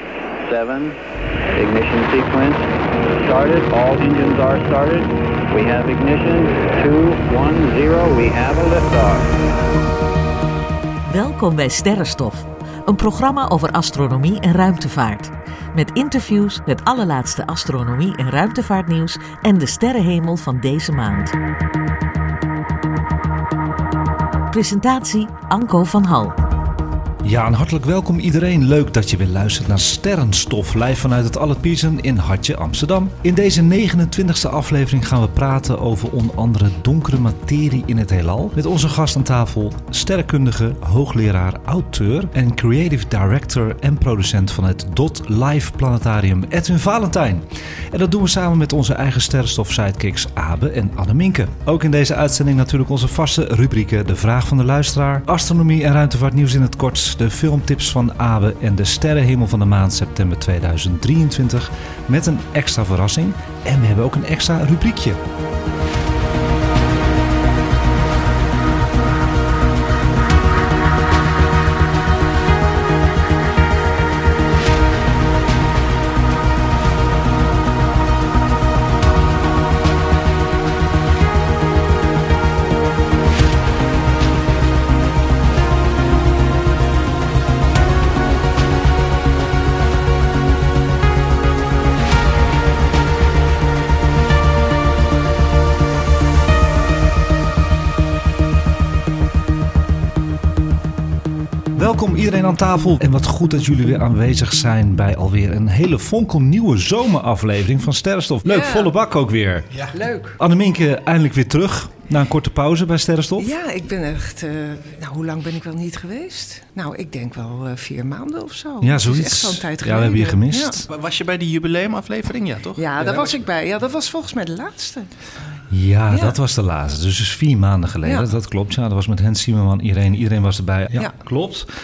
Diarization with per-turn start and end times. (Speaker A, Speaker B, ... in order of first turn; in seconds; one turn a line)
Speaker A: 0.4-1.0
Speaker A: 1.5-9.3
Speaker B: 11.1-21.3
Speaker B: 24.5-26.4
Speaker C: 27.2-65.2
Speaker C: 101.7-109.9
Speaker D: 108.4-108.9
Speaker D: 109.9-110.4
Speaker C: 110.4-113.5
Speaker D: 113.4-120.8
Speaker C: 118.8-120.9
Speaker E: 120.9-123.4
Speaker D: 122.8-125.1
Speaker C: 125.7-131.7
Speaker D: 126.1-126.4
Speaker D: 128.1-128.3